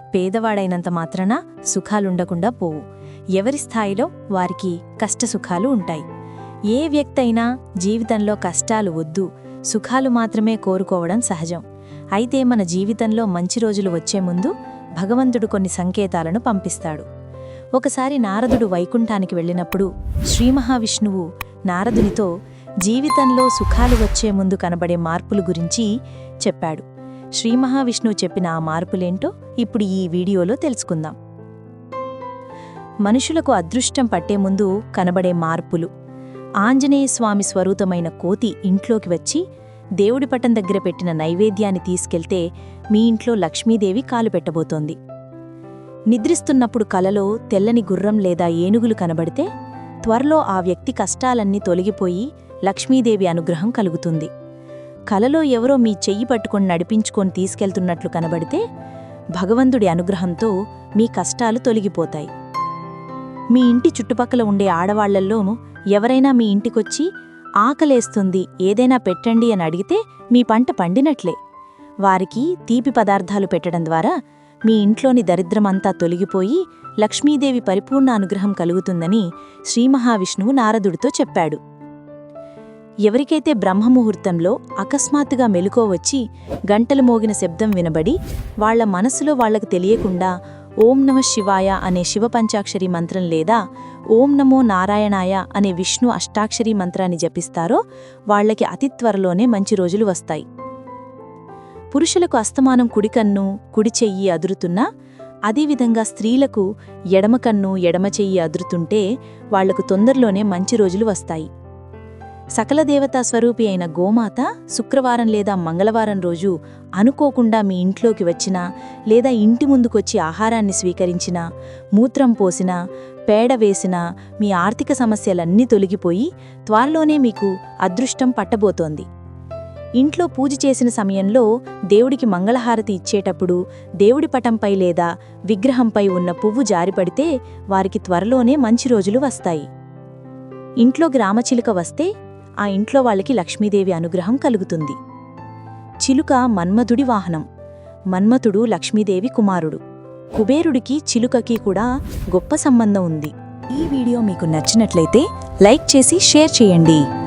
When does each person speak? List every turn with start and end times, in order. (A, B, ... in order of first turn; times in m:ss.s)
0:00.1-0:02.8 A
0:03.4-0:06.0 A
0:06.7-0:11.6 A
0:12.2-0:17.0 A
0:17.8-0:22.3 A
0:22.8-0:25.9 A
0:26.4-0:26.8 A
0:27.4-0:31.2 A
0:33.0-0:35.9 A
0:36.6-0:39.4 A
0:40.0-0:45.0 A
0:46.1-0:49.5 A
0:50.0-0:54.3 A
0:55.1-0:58.6 A
0:59.3-1:02.3 A
1:03.5-1:07.1 A
1:07.6-1:11.4 A
1:12.0-1:14.1 A
1:14.7-1:21.6 A
1:23.0-1:30.3 A
1:30.8-1:33.6 A
1:34.2-1:37.8 A
1:38.3-1:40.4 A
1:41.9-1:44.8 A
1:45.5-1:51.5 A
1:52.6-2:01.4 A
2:02.0-2:02.8 A
2:03.3-2:09.1 A
2:10.0-2:19.7 A
2:20.8-2:22.1 A
2:22.6-2:25.0 A
2:26.0-2:27.4 A
2:28.1-2:29.8 A
2:30.3-2:37.0 A